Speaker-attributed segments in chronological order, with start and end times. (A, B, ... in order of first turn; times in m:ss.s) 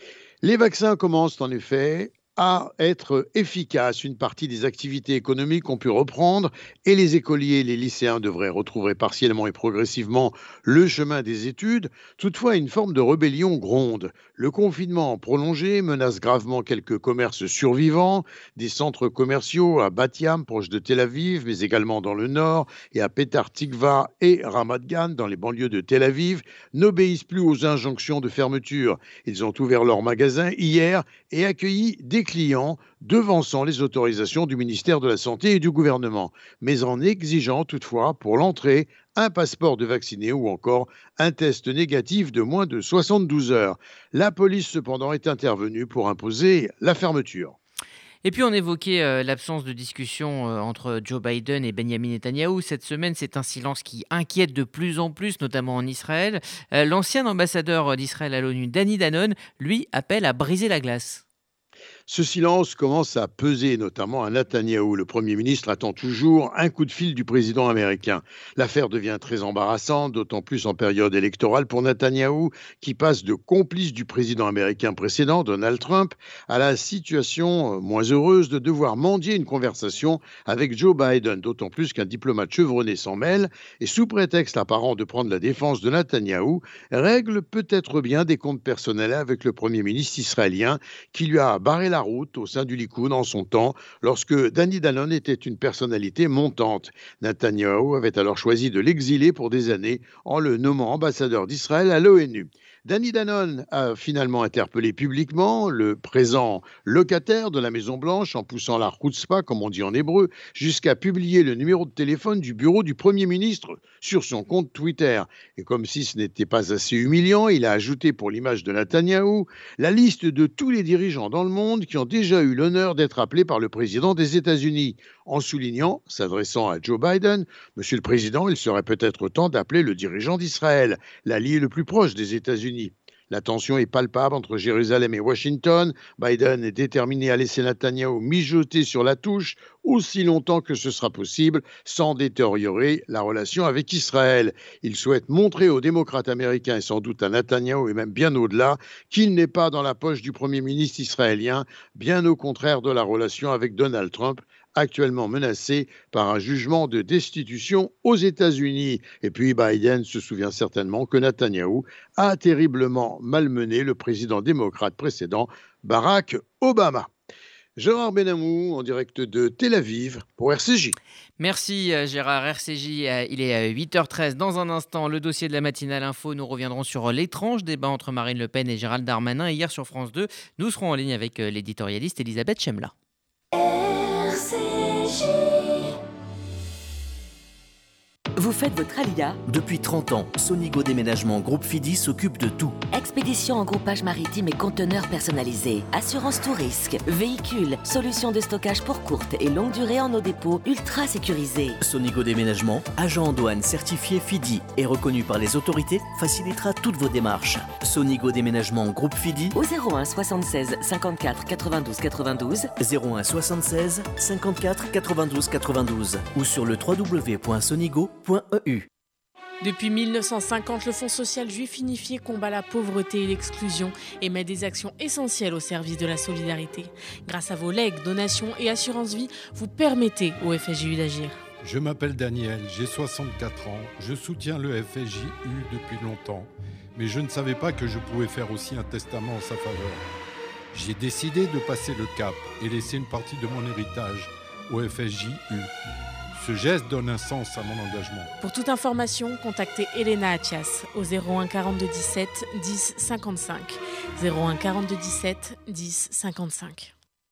0:00.4-0:47.6 A
0:48.2-1:01.2 B
1:02.1-2:47.1 A
2:47.8-2:51.0 A
2:51.4-3:02.9 B
3:08.4-3:09.4 C
3:09.5-3:12.8 D
3:12.9-3:21.8 C
3:21.8-3:29.6 D
3:29.5-3:32.7 C
3:32.8-3:38.9 D
3:39.6-3:51.4 E
3:51.6-4:00.0 F
4:00.7-4:05.7 F
4:06.3-4:08.3 F
4:08.4-4:16.9 E